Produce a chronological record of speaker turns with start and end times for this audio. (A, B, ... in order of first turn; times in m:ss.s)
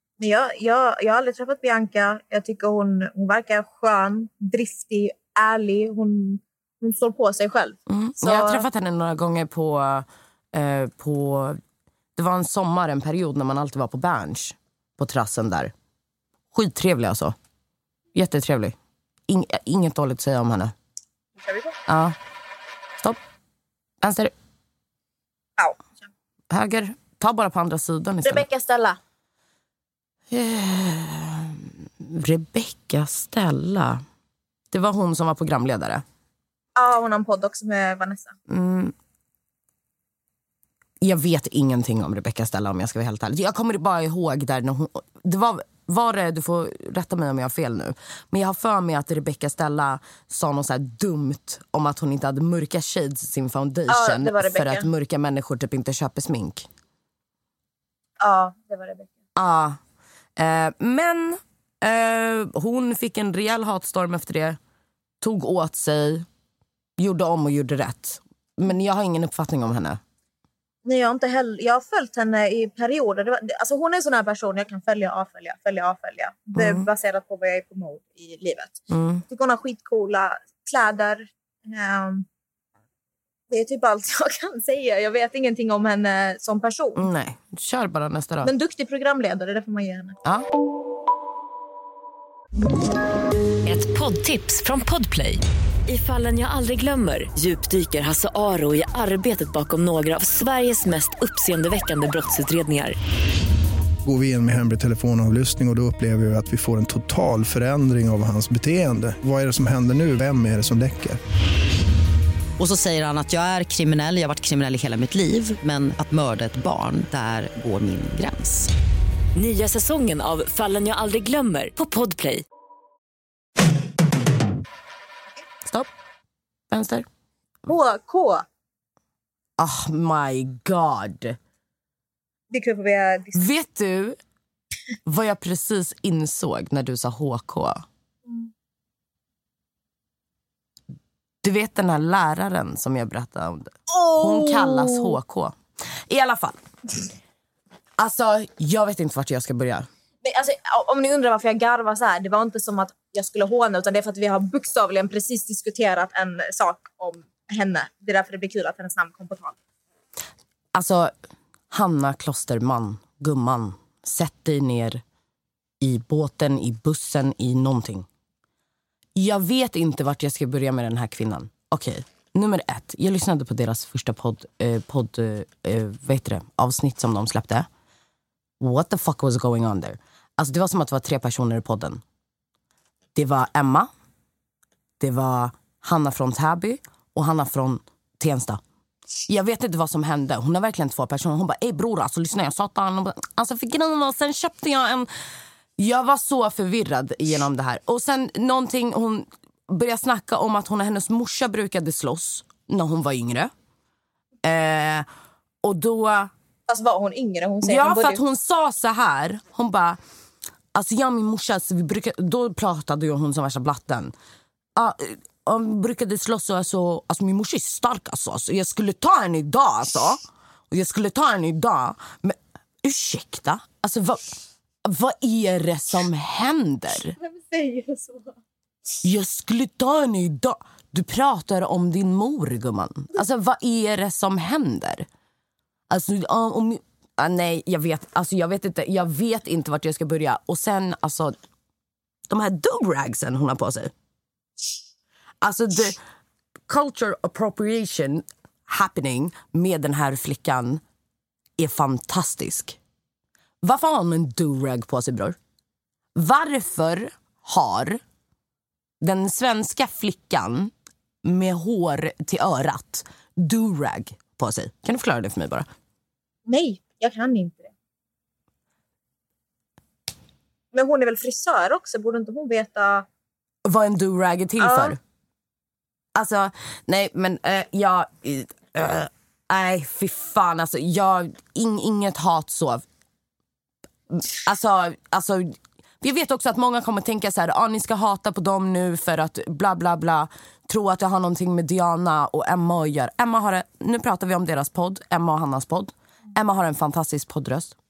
0:00.2-0:08.6 A
0:07.9-0:11.6 B
0:12.2-0:15.7 B
0:16.5-0:17.4 B
0:18.1-0:18.8 B
0:19.3-0:20.7 B
0:21.4-0:21.8 A
0:21.9-0:22.2 B
0:24.0-0:24.3 B
0:25.6-0:25.9 A
0:26.5-0:28.4 B
0:28.2-0:29.0 A
0:30.3-0:34.0 B
0:34.7-0:36.0 B
0:36.8-0:38.4 A
0:38.5-0:39.0 B
0:41.0-0:56.7 B
0:53.9-0:54.9 A
0:58.2-0:59.1 A
0:59.4-0:59.8 B
1:00.4-1:04.6 B
1:05.2-1:06.3 B
1:07.0-1:10.0 B
1:10.8-1:22.3 A
1:16.6-1:16.9 B
1:18.9-1:19.2 B
1:23.5-1:27.1 A
1:27.0-1:28.5 B
1:28.4-1:30.2 A
1:33.7-1:43.0 C
1:44.0-1:51.2 D
1:52.6-1:58.7 E
1:59.4-2:02.4 C
2:06.7-2:07.1 B
2:07.7-2:08.4 A
2:09.6-2:11.4 B
2:12.5-2:13.4 A
2:13.4-2:14.2 B
2:15.1-2:17.8 B
2:21.4-2:26.6 B
2:23.9-2:25.2 A
2:28.0-2:29.9 B
2:30.2-2:39.6 A
2:40.7-2:41.1 B
2:41.7-2:45.0 B
2:45.8-2:48.1 B
2:49.2-2:57.7 B
2:58.6-3:02.0 B
3:03.2-3:03.9 B
3:05.0-3:08.6 B
3:09.3-3:15.1 B
3:15.8-3:23.5 B
3:24.4-3:25.1 B
3:25.6-3:26.3 B
3:26.7-3:28.2 A
3:27.6-3:30.0 B
3:30.7-3:34.1 B
3:34.8-3:44.3 B
3:44.8-3:47.2 B
3:47.2-3:48.4 A
3:49.0-3:55.1 B
3:55.9-4:01.4 B
4:02.3-4:03.9 B
4:05.4-4:06.0 B
4:06.7-4:10.8 B
4:11.6-4:12.8 B
4:13.6-4:15.4 B
4:16.2-4:18.0 B
4:19.0-4:20.7 B
4:21.2-4:25.7 B
4:26.5-4:27.7 A
4:30.7-4:33.1 A
4:33.6-4:35.0 B
4:34.6-4:35.0 A
4:36.2-4:42.8 B
4:44.1-4:57.8 B